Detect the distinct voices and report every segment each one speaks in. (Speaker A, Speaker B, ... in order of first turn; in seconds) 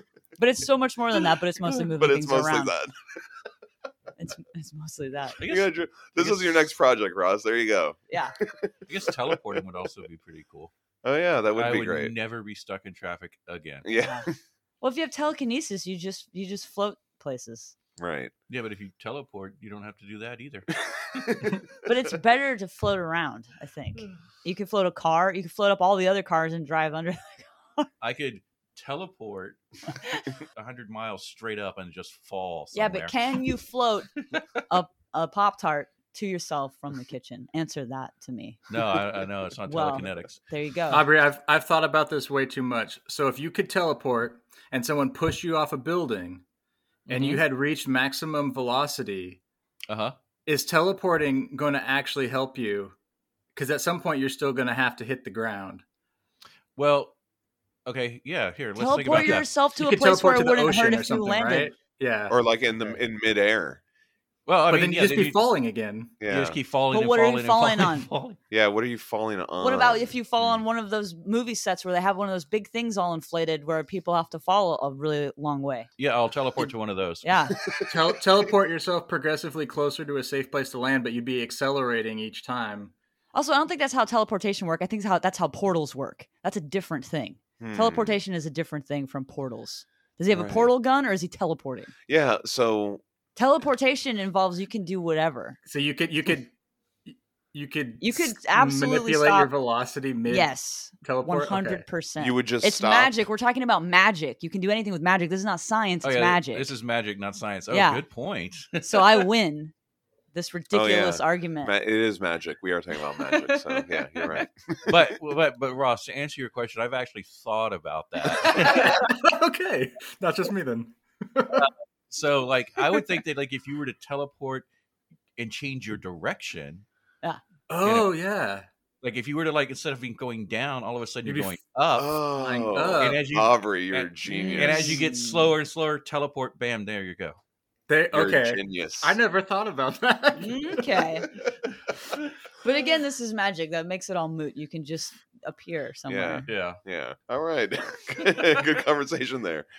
Speaker A: 0.4-2.7, 4.2-5.4, 14.0-14.3, 14.8-17.7, 21.8-27.9, 32.7-34.1, 34.7-38.6, 39.7-41.0, 58.8-61.7, 66.9-68.1, 69.6-75.9, 77.2-77.5, 83.3-91.9, 93.4-95.6, 98.0-99.5, 100.3-106.7, 107.7-108.0, 108.8-109.7, 110.3-111.7, 134.3-135.5, 140.4-141.3, 142.6-146.5
Speaker B: 1.9-3.0, 5.5-9.4, 11.0-12.1, 13.8-14.3, 18.0-18.3, 20.9-21.7, 62.3-63.8, 66.2-66.6, 68.5-70.6, 77.6-78.2, 87.6-88.2, 90.3-90.7, 92.1-93.0, 102.2-103.2, 110.7-115.0, 131.9-135.0, 138.1-139.2, 146.1-149.7
Speaker C: 5.4-6.7, 8.9-10.7, 11.5-13.9, 18.5-20.7, 28.0-29.6, 30.4-33.2, 38.7-40.4, 47.1-47.4, 49.9-50.2, 56.8-57.1, 57.9-59.5, 64.5-65.4, 66.3-68.4, 76.0-77.3, 106.0-109.3, 113.2-119.1, 121.5-124.7, 125.4-126.8, 129.0-132.2, 133.0-137.4, 146.5-146.8
Speaker D: 40.9-46.4, 47.1-49.4, 50.5-53.0, 53.5-55.8, 59.1-63.0, 64.7-66.2, 77.9-82.9, 95.7-96.5, 97.1-101.9, 118.4-121.7, 127.7-128.7, 131.2-131.6, 132.3-133.2, 137.9-140.6